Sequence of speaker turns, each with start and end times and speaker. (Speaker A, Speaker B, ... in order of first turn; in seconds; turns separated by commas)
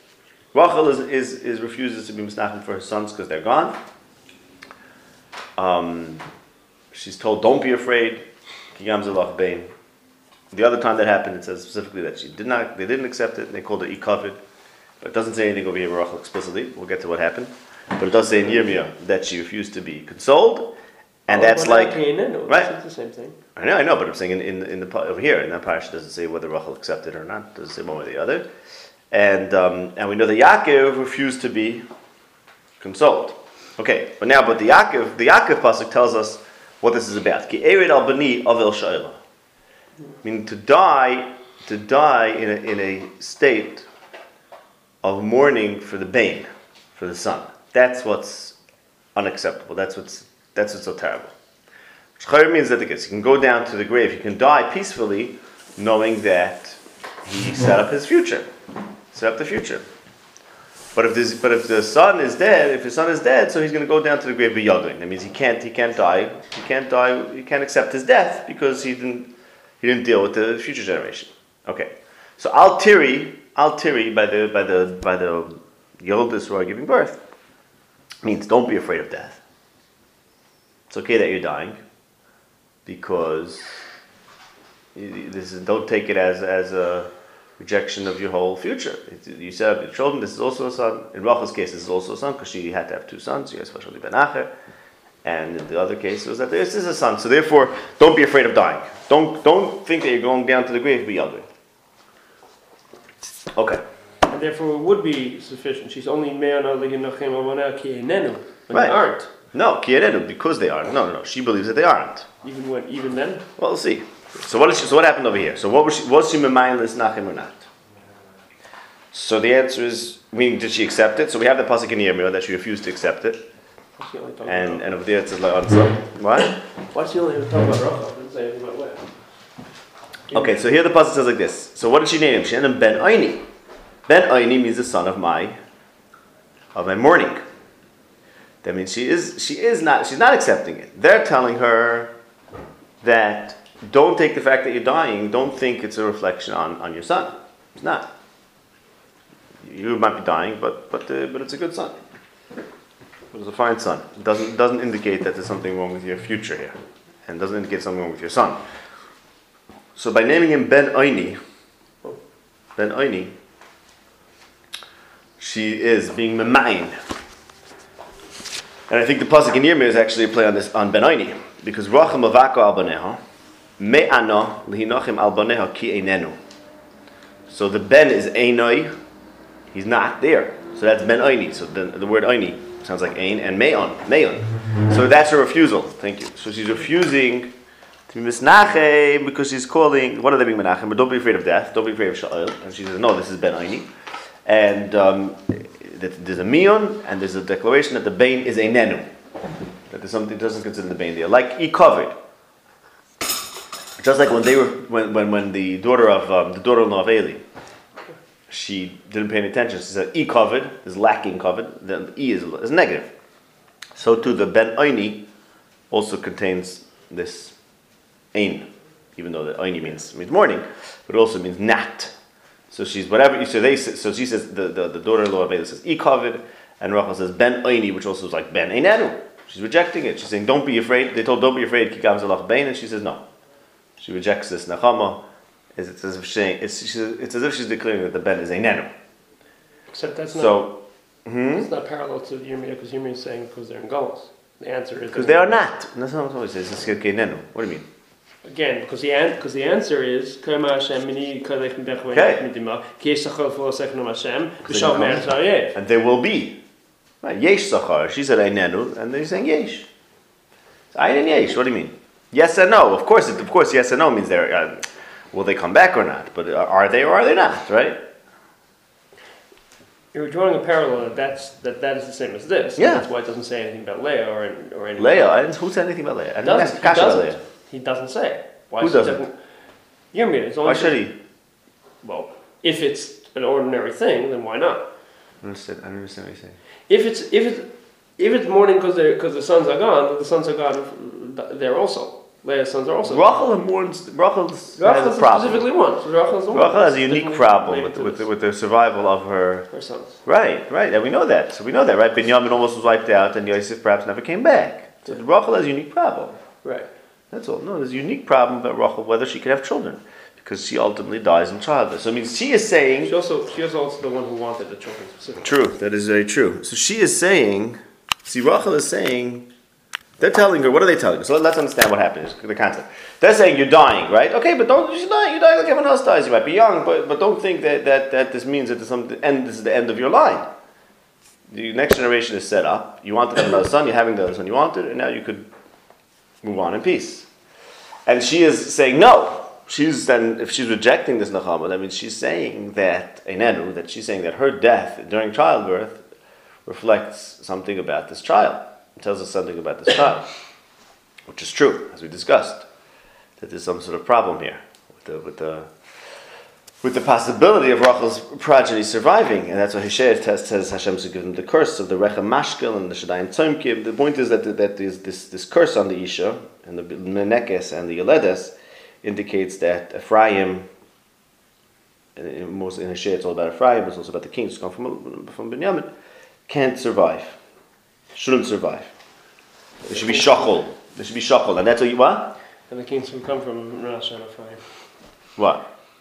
Speaker A: 0.5-3.8, Speaker A: 5.6-6.2, Speaker A: 6.9-9.7, Speaker A: 10.5-14.4, Speaker A: 15.0-20.7, Speaker A: 21.3-22.7, Speaker B: 21.3-23.4, Speaker A: 23.6-28.5, Speaker A: 29.1-31.9, Speaker A: 32.8-39.2, Speaker A: 40.2-43.9, Speaker A: 45.0-48.6, Speaker A: 49.1-51.3, Speaker A: 52.2-58.5, Speaker A: 59.1-59.9, Speaker A: 61.0-77.2, Speaker A: 78.2-79.4, Speaker A: 80.9-81.8, Speaker A: 82.9-83.8, Speaker A: 85.0-94.5, Speaker A: 95.2-101.5, Speaker A: 103.5-103.8, Speaker B: 104.3-109.3, Speaker A: 108.7-109.0, Speaker A: 109.5-112.3, Speaker B: 112.4-113.5, Speaker A: 113.6-117.7, Speaker A: 119.1-123.5, Speaker B: 124.0-124.9, Speaker A: 124.4-126.6, Speaker B: 126.9-129.1, Speaker A: 130.3-133.5, Speaker A: 134.1-135.6, Speaker A: 136.7-137.4, Speaker A: 138.6-142.1, Speaker A: 143.0-148.1, Speaker A: 149.6-152.0, Speaker A: 153.3-158.6, Speaker A: 159.9-161.4, Speaker A: 162.8-163.3, Speaker A: 165.4-167.0, Speaker A: 168.9-173.2, Speaker A: 173.8-176.4, Speaker A: 177.5-178.9, Speaker A: 179.7-187.5, Speaker A: 188.1-193.9, Speaker A: 194.4-199.1, Speaker A: 199.9-202.1, Speaker A: 204.0-207.4, Speaker A: 208.5-213.1, Speaker A: 214.0-215.3, Speaker A: 215.9-217.6, Speaker A: 218.3-222.1, Speaker A: 222.7-233.3, Speaker A: 234.0-238.9, Speaker B: 239.9-240.7, Speaker A: 240.3-241.7, Speaker B: 241.6-245.6, Speaker A: 245.1-247.9, Speaker B: 248.4-255.8, Speaker A: 252.1-252.4, Speaker A: 254.7-256.6, Speaker A: 257.2-259.9, Speaker A: 260.9-268.0, Speaker B: 270.1-275.3, Speaker A: 272.8-273.1, Speaker A: 275.0-277.4, Speaker B: 276.4-279.4, Speaker A: 278.8-279.2, Speaker B: 280.1-281.0, Speaker A: 280.6-281.2, Speaker B: 282.0-284.9, Speaker A: 285.4-286.6, Speaker B: 286.9-293.3, Speaker A: 293.0-295.7, Speaker B: 294.8-298.3, Speaker A: 296.5-299.7, Speaker B: 299.7-300.2, Speaker A: 300.2-306.4, Speaker B: 306.6-306.9, Speaker A: 307.3-313.1, Speaker B: 313.0-315.5, Speaker A: 315.4-319.5, Speaker A: 320.2-330.5, Speaker A: 331.5-335.5, Speaker A: 336.4-337.3, Speaker A: 338.1-346.0, Speaker A: 346.6-350.3, Speaker A: 351.3-352.7, Speaker A: 353.4-355.7, Speaker A: 356.8-370.7, Speaker A: 372.2-375.9, Speaker A: 376.5-377.4, Speaker A: 378.1-378.9, Speaker B: 379.9-380.6, Speaker A: 379.9-382.4, Speaker B: 382.7-384.6, Speaker A: 385.4-385.6